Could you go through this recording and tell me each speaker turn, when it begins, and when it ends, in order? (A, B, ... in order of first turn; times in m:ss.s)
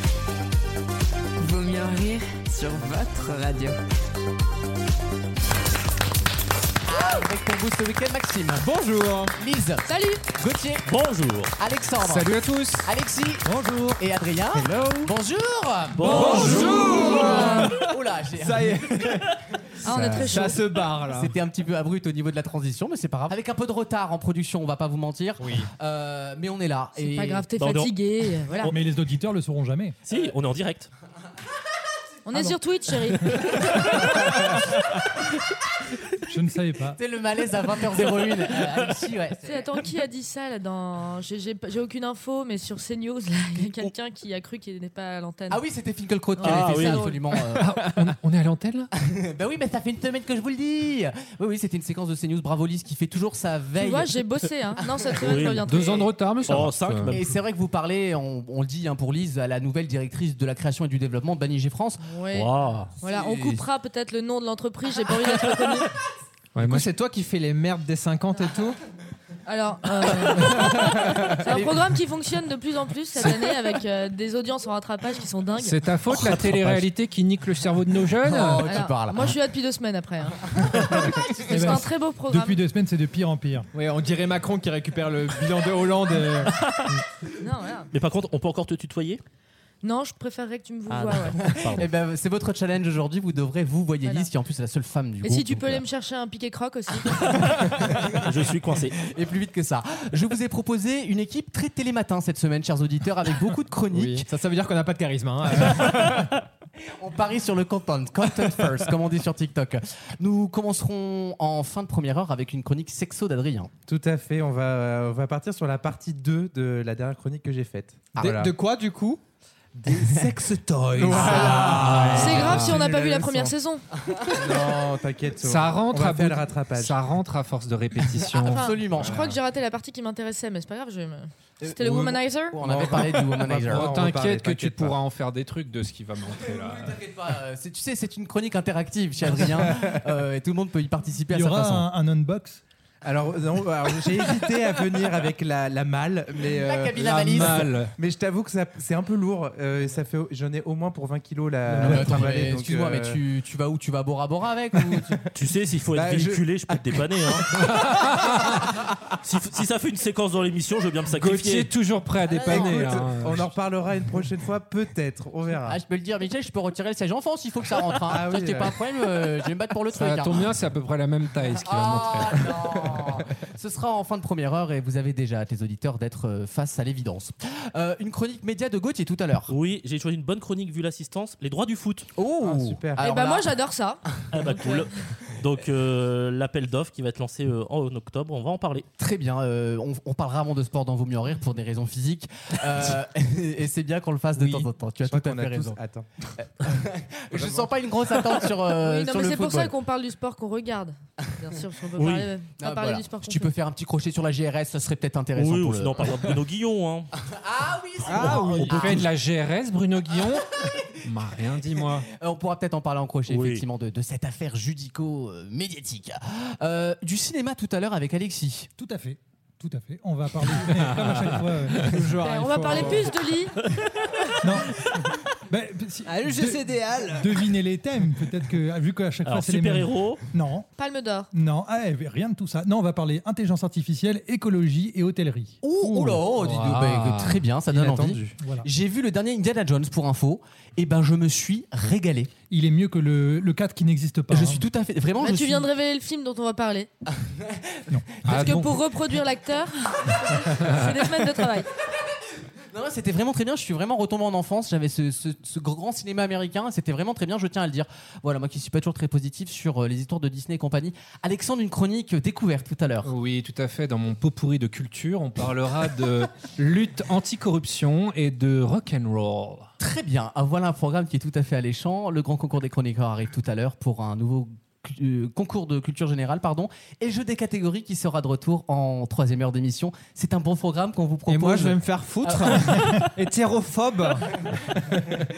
0:01.4-0:03.8 A
0:06.9-0:08.7 B
0:08.6-0:09.4 C
0:09.4-0:10.9 B
0:09.9-0:10.2 D
0:10.9-0:11.5 E
0:11.6-0:20.2 B
0:12.0-0:12.9 F
0:13.5-0:14.0 G
0:14.7-0:15.1 C
0:16.0-0:17.1 E
0:16.0-0:21.4 C
0:17.0-0:17.7 D
0:19.8-0:20.6 D
0:21.0-0:27.5 B
0:25.4-0:25.7 C
0:27.0-0:28.7 D
0:27.6-0:28.7 E
0:28.7-0:30.0 G
0:30.0-0:30.9 E
0:32.3-0:33.9 D
0:36.3-0:37.0 G
0:37.0-0:39.7 B
0:39.4-0:45.6 D
0:45.5-0:47.6 B
0:46.4-0:47.2 D
0:46.4-0:47.1 E
0:47.6-0:48.9 F
0:49.0-0:54.2 B
0:53.8-0:56.1 D
0:55.2-0:57.3 E
0:55.7-0:57.3 F
0:57.1-1:02.0 B
1:02.0-1:05.9 D
1:02.3-1:02.9 E
1:03.3-1:03.6 H
1:06.6-1:06.9 F
1:06.6-1:08.8 C
1:09.5-1:15.8 D
1:11.1-1:11.8 B
1:13.2-1:13.6 F
1:15.6-1:18.7 F
1:16.1-1:16.8 E
1:18.2-1:19.4 B
1:18.6-1:20.5 D
1:20.6-1:21.7 B
1:21.2-1:23.7 G
1:21.5-1:22.6 D
1:23.7-1:27.0 C
1:26.6-1:26.9 E
1:27.4-1:27.9 D
1:27.9-1:29.2 E
1:29.8-1:31.5 D
1:30.9-1:31.9 E
1:31.3-1:35.8 B
1:35.2-1:37.5 D
1:37.8-1:38.3 B
1:38.0-1:39.0 E
1:39.0-1:44.3 B
1:43.9-1:46.3 C
1:47.0-1:53.7 B
1:53.9-1:58.5 H
1:58.2-1:59.2 C
1:59.8-2:03.6 H
1:59.9-2:00.2 B
2:01.0-2:02.6 B
2:01.6-2:01.9 C
2:02.0-2:02.8 F
2:02.1-2:03.8 D
2:04.0-2:04.8 B
2:04.3-2:07.0 H
2:05.4-2:08.7 F
2:08.0-2:09.4 B
2:08.4-2:12.6 D
2:11.6-2:14.0 B
2:12.6-2:15.0 H
2:13.7-2:17.0 F
2:16.2-2:21.9 B
2:19.6-2:19.8 H
2:21.3-2:22.6 G
2:23.0-2:33.2 H
2:26.5-2:27.7 B
2:27.0-2:27.9 F
2:31.7-2:35.2 B
2:31.8-2:32.2 F
2:35.3-2:37.5 E
2:35.9-2:36.5 H
2:37.4-2:37.8 B
2:37.6-2:38.6 F
2:39.2-2:41.7 E
2:41.1-2:43.5 F
2:42.2-2:43.1 B
2:42.5-2:45.8 H
2:45.7-2:50.5 B
2:48.0-2:48.8 H
2:49.9-2:52.7 F
2:51.5-2:59.5 B
2:59.5-3:02.1 E
3:02.2-3:03.6 B
3:02.4-3:03.1 H
3:03.0-3:04.0 D
3:04.3-3:08.9 E
3:09.0-3:15.8 B
3:14.4-3:16.1 H
3:16.4-3:19.7 B
3:17.4-3:17.7 H
3:18.8-3:23.5 D
3:22.0-3:22.3 E
3:22.6-3:26.1 B
3:25.4-3:27.1 E
3:27.2-3:29.1 B
3:28.0-3:29.0 C
3:28.1-3:28.9 E
3:28.6-3:32.1 F
3:31.8-3:38.7 B
3:33.3-3:33.6 E
3:38.8-3:42.0 G
3:40.6-3:41.9 F
3:41.9-3:43.3 C
3:42.2-3:43.6 D
3:44.4-3:50.7 G
3:46.1-3:47.5 C
3:49.2-3:50.2 E
3:50.8-3:51.3 D
3:51.3-3:55.6 G
3:55.6-4:02.3 B
3:56.0-3:57.5 F
3:57.8-3:58.7 G
4:02.5-4:04.6 G
4:04.3-4:05.7 B
4:05.2-4:06.9 D
4:07.1-4:07.8 B
4:07.9-4:08.6 G
4:08.3-4:08.8 F
4:08.3-4:11.7 D
4:10.5-4:10.9 F
4:12.7-4:23.1 B
4:23.0-4:29.7 F
4:29.8-4:43.1 B
4:41.3-4:45.1 C